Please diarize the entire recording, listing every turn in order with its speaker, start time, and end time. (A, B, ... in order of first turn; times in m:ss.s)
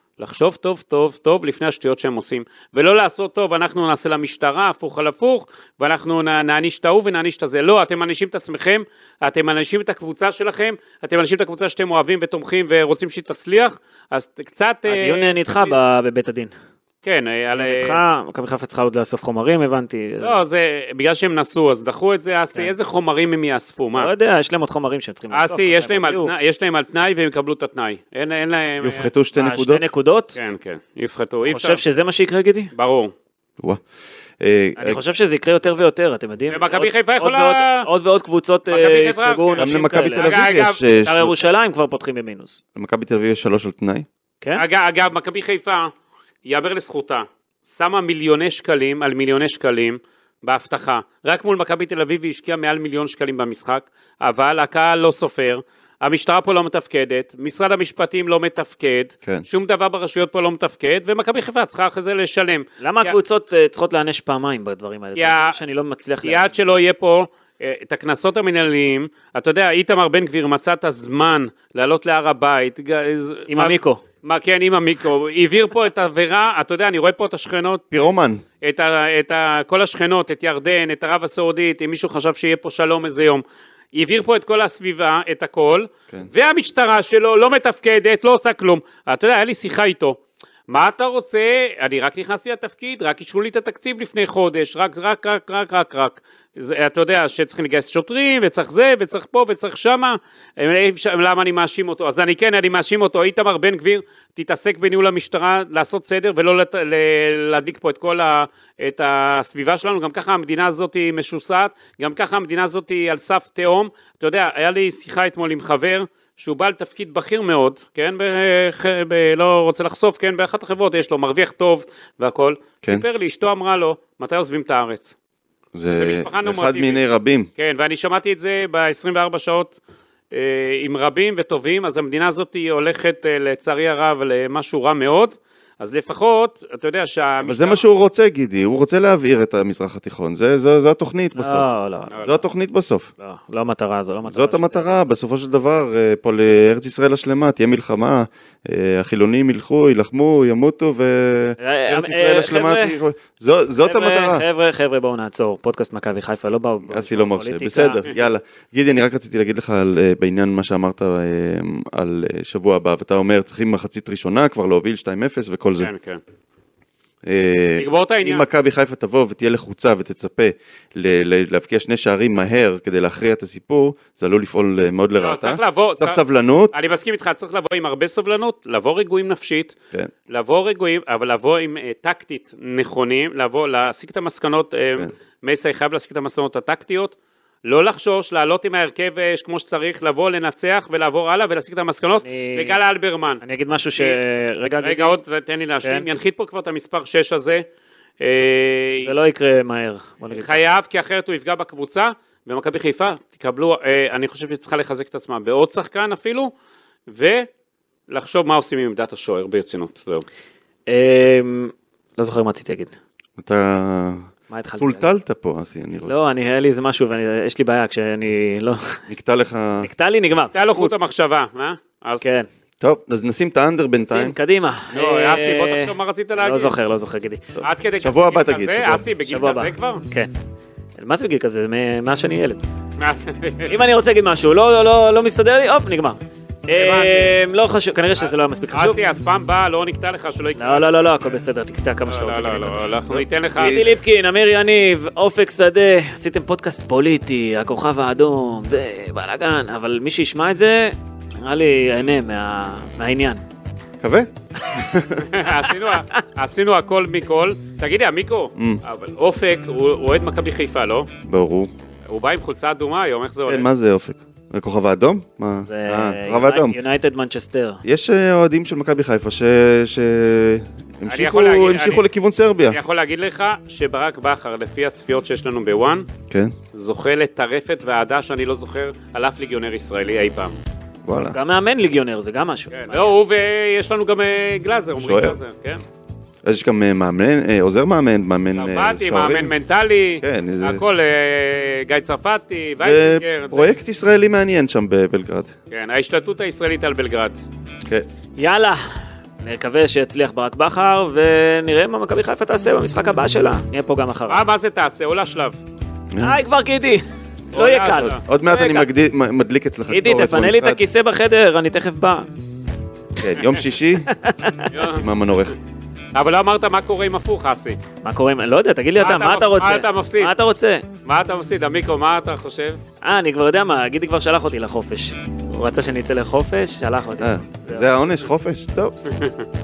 0:00.2-0:15.8 A
0:14.9-0:16.5 B
0:17.0-0:18.0 A
0:17.5-0:20.4 B
0:20.2-0:24.1 A
0:23.9-0:26.3 B
0:25.3-0:29.1 A
0:28.8-0:29.8 C
0:29.4-0:30.4 B
0:30.3-0:31.8 A
0:31.4-0:32.7 B
0:32.7-0:33.1 A
0:34.4-0:35.0 C
0:34.8-0:42.6 B
0:36.5-0:37.9 A
0:38.7-0:40.8 A
0:39.6-0:41.3 C
0:42.7-0:44.0 C
0:44.6-0:45.9 A
0:46.4-1:03.1 A
1:02.8-1:06.6 B
1:05.2-1:05.6 A
1:06.2-1:17.8 A
1:13.5-1:14.0 B
1:17.9-1:18.4 C
1:18.6-2:05.1 A
2:05.7-2:07.5 C
2:06.0-2:07.0 A
2:07.6-2:09.8 A
2:10.3-2:17.8 A
2:17.4-2:21.7 C
2:21.4-2:22.2 B
2:22.1-2:22.4 A
2:22.2-2:23.1 C
2:23.2-2:25.1 B
2:24.2-2:34.4 C
2:31.6-2:33.0 B
2:33.8-2:38.1 B
2:36.9-2:45.9 C
2:45.8-2:46.2 A
2:47.2-2:56.7 C
2:47.8-2:48.4 A
2:55.2-2:56.2 A
2:56.7-2:59.7 A
3:00.3-3:13.4 A
3:12.2-3:12.8 B
3:13.4-3:15.2 B
3:14.8-3:17.6 A
3:18.2-3:19.1 A
3:19.0-3:20.6 B
3:20.3-3:26.5 A
3:27.1-3:27.5 A
3:28.1-3:30.2 A
3:30.9-3:32.9 B
3:33.4-3:34.3 C
3:34.5-3:35.1 B
3:34.8-3:36.1 C
3:36.0-3:39.0 B
3:39.1-3:39.9 C
3:39.8-3:40.9 B
3:40.5-3:42.2 A
3:42.2-3:42.5 B
3:42.8-3:44.4 C
3:44.0-3:47.4 B
3:44.9-3:46.7 A
3:47.6-3:49.1 C
3:47.6-3:50.0 A
3:49.3-3:50.3 B
3:51.0-3:52.6 B
3:53.0-3:53.7 A
3:53.7-3:59.0 B
3:56.7-3:57.3 A
3:58.2-4:01.2 A
4:00.6-4:02.8 B
4:02.1-4:03.8 A
4:03.1-4:04.0 C
4:03.6-4:13.4 B
4:14.0-4:15.3 C
4:15.3-4:21.1 A
4:15.9-4:16.2 B
4:18.6-4:18.8 C
4:21.2-4:21.7 C
4:22.1-4:23.6 A
4:23.4-4:26.8 C
4:25.6-4:27.8 B
4:27.8-4:32.8 C
4:31.1-4:32.0 A
4:32.7-4:36.1 A
4:36.3-4:36.5 C
4:36.7-4:40.6 A
4:41.0-4:41.4 C
4:41.3-4:43.1 B
4:42.7-4:45.8 A
4:45.0-4:45.4 C
4:46.4-4:49.5 C
4:48.5-4:53.7 A
4:50.2-4:50.8 C
4:52.8-4:55.5 C
4:55.7-4:57.4 A
4:58.4-4:58.8 B
4:59.4-5:04.4 B
5:04.3-5:05.6 A
5:06.1-5:06.4 C
5:06.2-5:08.9 B
5:07.5-5:08.2 A
5:07.9-5:10.8 C
5:09.9-5:12.3 B
5:13.2-5:14.1 C
5:14.0-5:14.7 B
5:14.7-5:15.1 A
5:14.7-5:15.5 C
5:16.1-5:17.8 A
5:18.0-5:20.8 B
5:19.0-5:20.3 A
5:21.0-5:22.8 A
5:23.0-5:27.9 B
5:27.2-5:28.9 C
5:29.1-5:29.4 A